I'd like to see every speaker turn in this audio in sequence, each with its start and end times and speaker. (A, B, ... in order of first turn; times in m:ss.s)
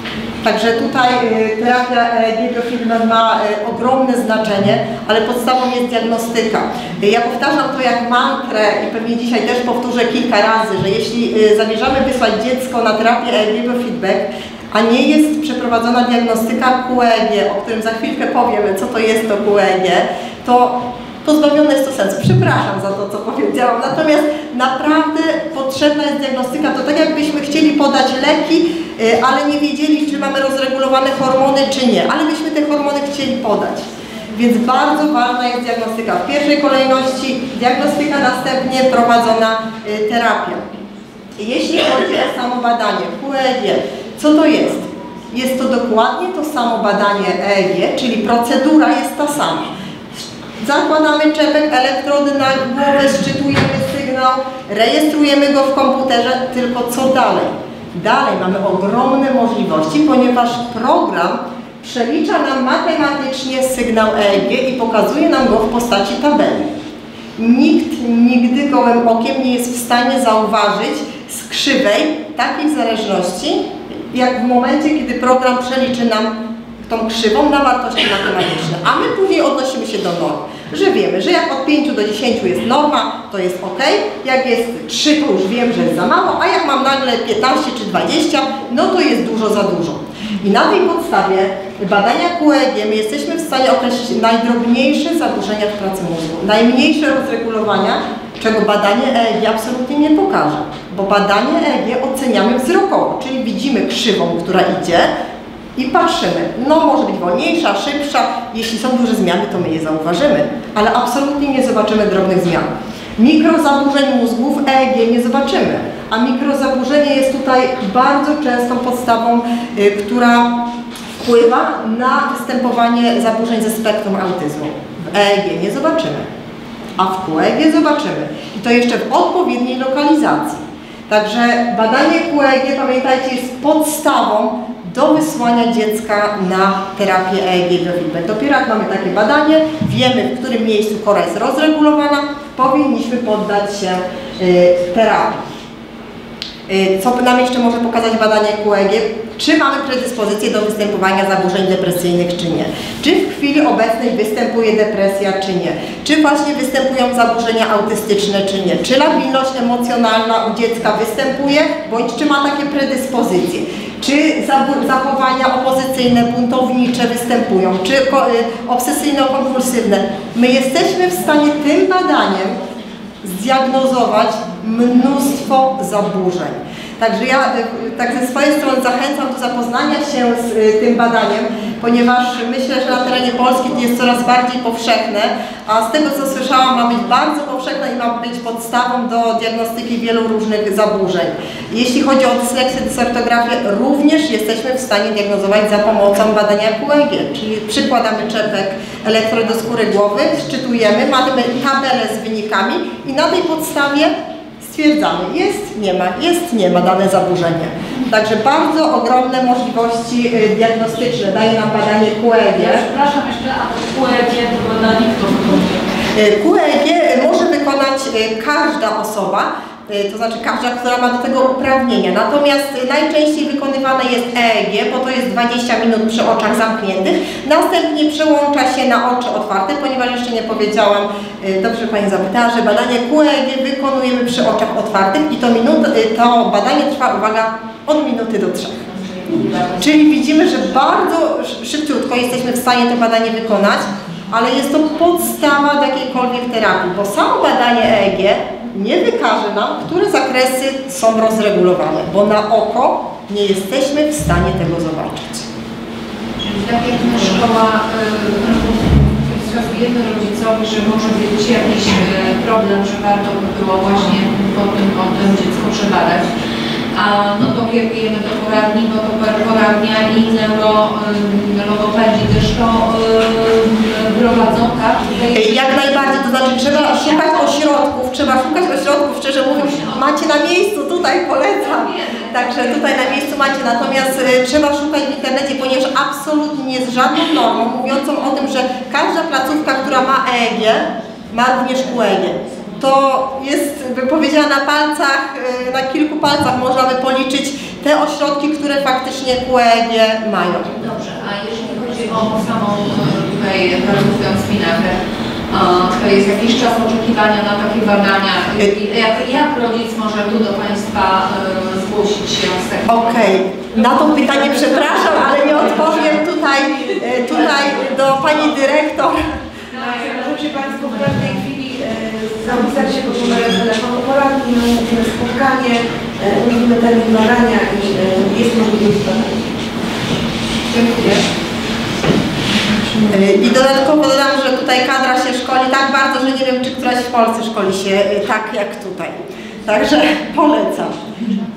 0:00.4-0:40.7 A
0:41.4-1:06.7 A
1:07.4-1:45.1 A
1:45.8-2:00.6 A
2:01.2-2:06.3 A
2:07.0-2:25.4 A
2:26.7-2:52.6 A
2:53.2-3:32.8 A
3:32.6-3:35.8 B
3:36.1-3:58.9 A
3:59.0-4:00.3 C
3:59.8-4:15.5 A
4:16.4-4:26.3 C
4:26.9-4:36.2 C
4:35.3-5:00.8 A
4:36.8-4:37.3 C
4:39.7-4:40.0 C
4:41.7-4:43.2 C
5:00.8-5:16.2 C
5:12.9-5:19.2 A
5:19.7-5:29.5 D
5:19.8-5:20.1 C
5:30.7-5:31.2 D
5:33.1-5:41.0 A